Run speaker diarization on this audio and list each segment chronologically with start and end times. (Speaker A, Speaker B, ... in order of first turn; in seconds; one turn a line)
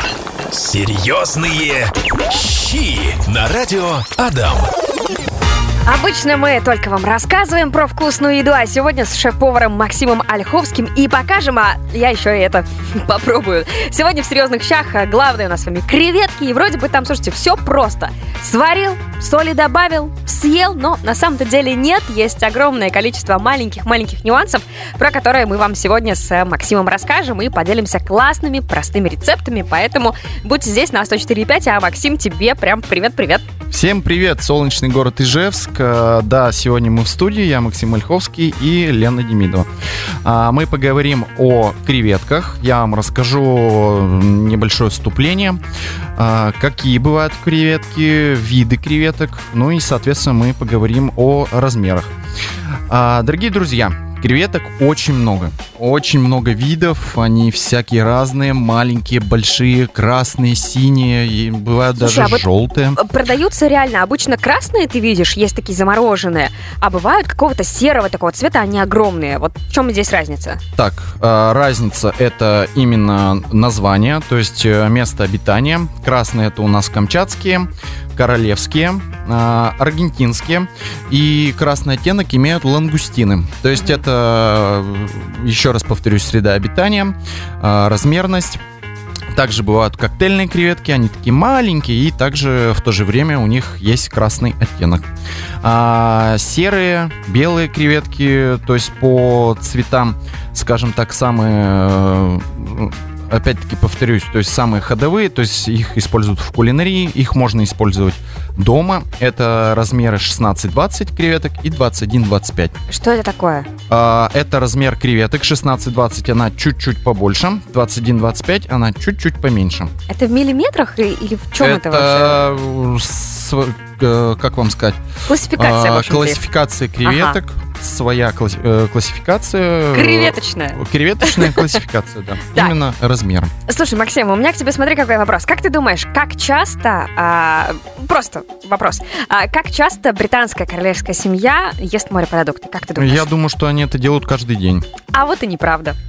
Speaker A: 0.5-4.7
Speaker B: 5.8-33.4
Speaker C: 33.7-39.7
Speaker C: 40.2-45.6
Speaker C: 46.1-52.1
Speaker C: 52.9-63.0
Speaker B: 62.0-70.6
Speaker C: 70.8-88.6
Speaker C: 89.3-95.0
Speaker C: 95.6-112.7
Speaker B: 112.9-113.7
Speaker C: 113.9-119.9
Speaker B: 120.1-122.4
Speaker C: 121.6-125.0
Speaker B: 125.2-126.4
Speaker C: 125.5-133.5
Speaker B: 127.0-127.4
Speaker B: 129.9-131.8
Speaker B: 133.7-143.3
Speaker C: 142.9-144.8
Speaker B: 145.1-145.9